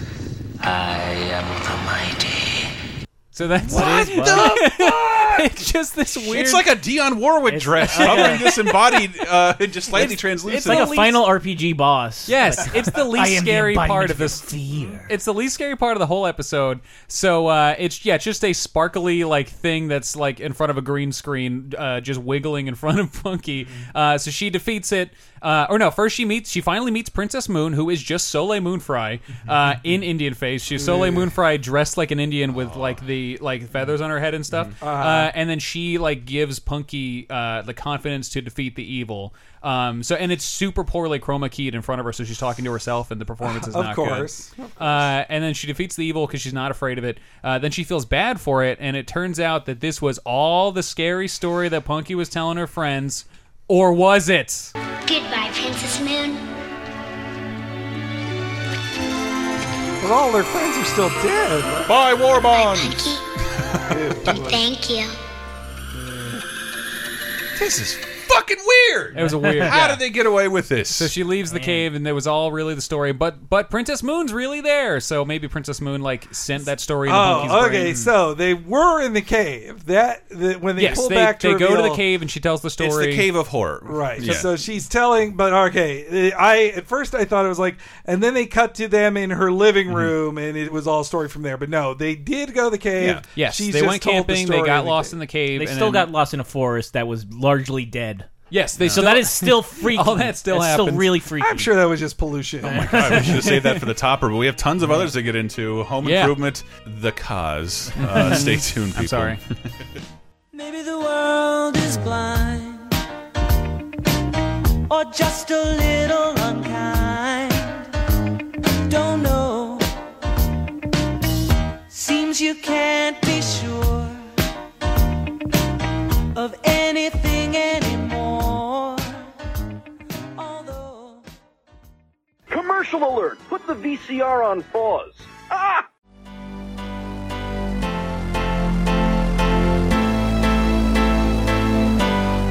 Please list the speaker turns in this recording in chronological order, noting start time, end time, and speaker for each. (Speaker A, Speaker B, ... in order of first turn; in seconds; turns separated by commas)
Speaker A: 0.6-2.7, Speaker B: 3.3-6.7, Speaker C: 3.7-4.6, Speaker D: 3.7-4.8, Speaker D: 6.3-10.9, Speaker C: 7.5-8.8, Speaker B: 7.8-8.6, Speaker C: 9.9-15.1, Speaker B: 9.9-11.3, Speaker B: 12.3-14.5, Speaker B: 15.1-54.7, Speaker E: 30.8-31.3, Speaker D: 32.7-33.0, Speaker E: 34.8-35.3, Speaker E: 43.4-45.0, Speaker F: 55.0-56.4, Speaker E: 60.0-61.9, Speaker D: 61.9-63.0, Speaker F: 62.5-63.2, Speaker E: 63.9-64.6, Speaker F: 64.3-65.2, Speaker E: 65.9-66.4, Speaker D: 67.5-71.1, Speaker B: 69.2-70.0, Speaker C: 69.2-69.8, Speaker B: 70.9-78.0, Speaker C: 71.5-71.9, Speaker E: 77.0-82.0, Speaker B: 80.8-83.3, Speaker D: 82.8-84.5, Speaker E: 83.9-95.1, Speaker D: 93.0-93.2, Speaker B: 93.3-96.1, Speaker C: 95.5-101.7, Speaker B: 98.5-101.1, Speaker E: 101.4-103.0, Speaker D: 102.7-109.4, Speaker C: 102.8-103.4, Speaker B: 106.0-106.4, Speaker B: 108.0-109.4, Speaker G: 110.5-112.9, Speaker G: 114.9-117.9, Speaker G: 118.9-119.9, Speaker G: 121.9-124.3, Speaker G: 126.3-129.3, Speaker G: 130.4-131.2, Speaker H: 132.5-135.9